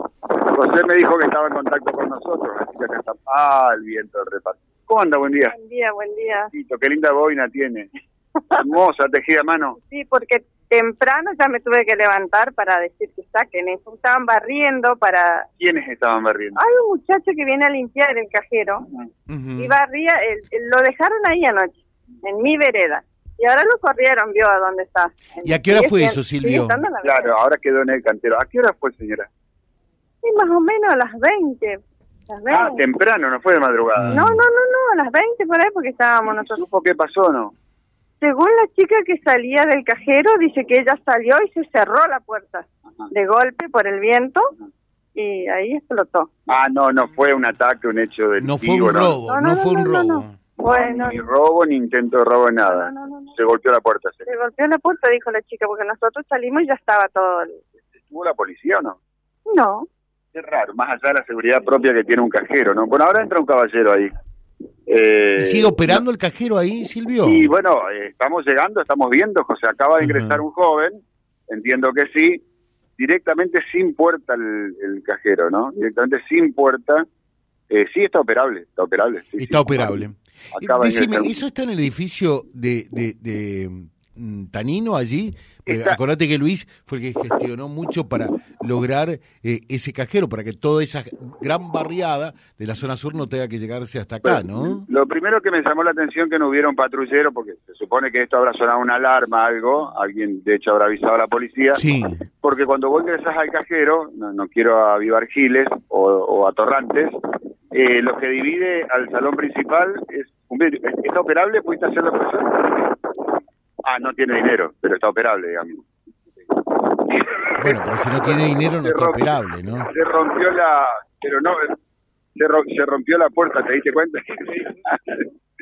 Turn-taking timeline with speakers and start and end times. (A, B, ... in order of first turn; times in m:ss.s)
0:00.5-0:05.6 A
0:05.5-0:06.5 B
0:06.5-0:07.9 A
0:08.5-0:09.8 A
0:09.8-0:15.5 B
0:15.6-0:16.6 A
0:16.6-0:18.8 B
0:19.3-0:19.8 C
0:19.6-0:27.3 B
0:25.4-0:26.8 C
0:27.0-0:29.3 A
0:30.2-0:32.8 B
0:32.5-0:34.2 A
0:34.0-0:34.4 C
0:34.1-0:36.6 B
0:36.3-0:37.5 A
0:38.2-0:44.5 B
0:45.2-0:46.3 B
0:46.5-0:49.2 A
0:48.4-0:50.4 C
0:49.3-0:51.3 B
0:50.7-0:54.3 A
0:52.6-0:53.3 B
0:54.2-0:57.6 B
0:58.0-0:59.0 A
0:59.5-0:59.9 B
1:00.3-1:04.1 A
1:04.9-1:06.0 A
1:05.4-1:07.5 C
1:07.2-1:12.4 A
1:10.0-1:10.4 C
1:13.0-1:17.1 A
1:17.7-1:21.4 A
1:19.4-1:34.9 C
1:25.7-1:26.0 A
1:34.2-1:41.8 A
1:41.8-1:42.2 C
1:42.4-1:47.2 A
1:47.7-1:53.0 A
1:53.8-1:55.9 A
1:56.5-2:01.7 A
1:57.6-1:59.9 C
2:02.4-2:05.3 A